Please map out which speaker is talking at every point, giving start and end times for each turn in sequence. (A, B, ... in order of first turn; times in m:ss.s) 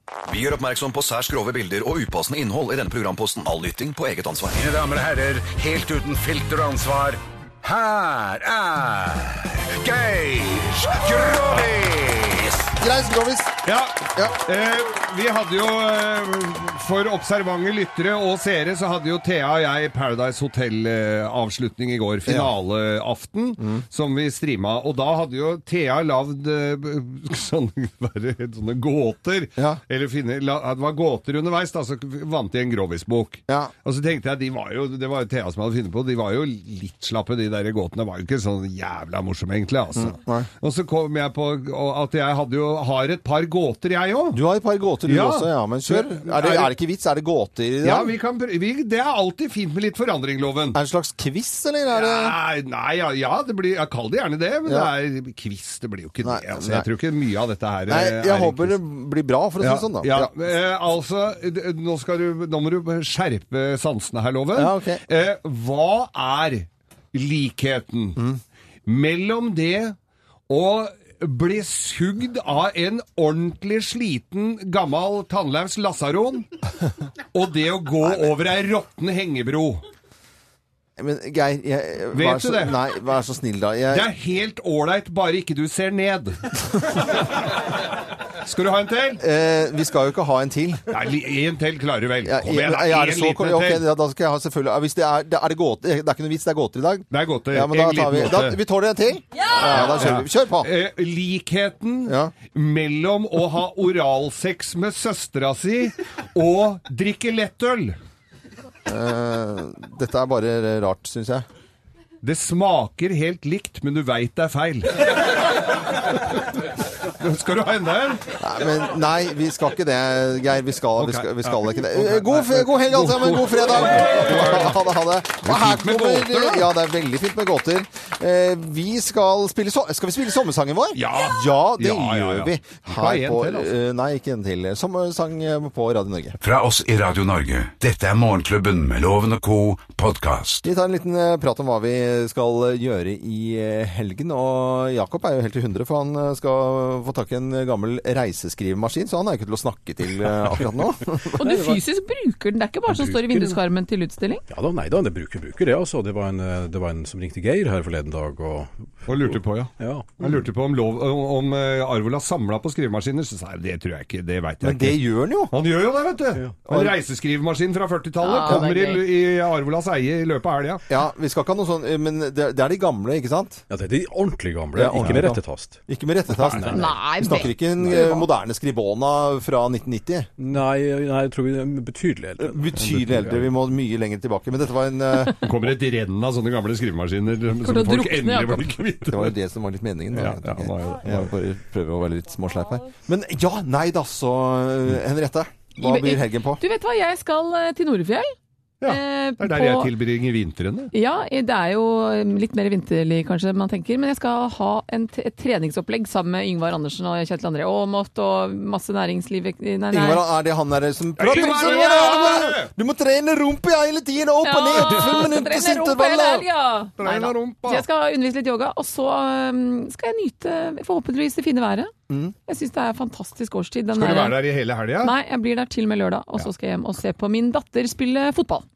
0:00.3-0:04.6 A
0:04.5-0:12.7 B
0:12.8-0:13.5 C
0:13.6-0:44.4 D
0:22.2-0:22.5 C
0:23.6-0:23.8 C
0:40.0-0:40.5 C
0:44.3-0:48.1 C
0:45.0-0:46.7 D
0:47.8-0:50.8 D
0:50.7-0:52.3 C
0:51.9-0:58.8 D
0:56.2-0:56.9 C
0:57.9-1:00.3 C
0:59.6-1:08.2 D
1:04.5-1:05.0 C
1:08.2-1:08.4 C
1:08.8-1:10.0 D
1:10.5-1:16.5 D
1:17.3-1:19.8 D
1:21.0-1:24.1 C
1:22.1-1:22.8 D
1:23.9-1:27.7 D
1:28.4-1:29.2 D
1:29.2-1:30.9 C
1:30.9-1:33.8 D
1:32.2-1:40.7 C
1:37.1-1:38.6 D
1:39.6-1:48.0 D
1:42.0-1:42.3 C
1:48.8-1:51.4 C
1:52.2-1:56.5 D
1:57.0-1:58.2 D
1:58.4-2:16.4 C
2:01.0-2:04.8 D
2:05.4-2:06.7 D
2:10.9-2:13.7 D
2:16.4-2:20.6 B
2:20.6-2:31.7 C
2:31.4-2:34.4 E
2:32.9-2:33.6 D
2:34.5-2:40.1 F
2:39.1-2:50.8 D
2:44.6-2:45.5 C
2:46.7-2:46.9 C
2:48.2-2:49.0 E
2:50.9-2:53.6 C
2:53.7-2:55.8 F
2:54.7-3:00.3 C
2:56.5-2:57.1 F
2:56.7-2:58.3 E
3:00.4-3:03.4 F
3:02.4-3:05.4 C
3:05.4-3:09.3 D
3:07.6-3:08.7 E
3:09.1-3:16.6 C
3:10.1-3:11.3 D
3:15.8-3:18.3 E
3:18.8-3:20.9 D
3:18.9-3:19.9 E
3:20.9-3:30.2 E
3:29.9-3:36.4 C
3:31.2-3:32.7 D
3:31.3-3:32.4 E
3:34.4-3:41.9 E
3:37.0-3:37.8 D
3:42.1-3:42.3 C
3:42.5-3:44.4 E
3:43.9-3:45.1 D
3:45.0-3:48.6 E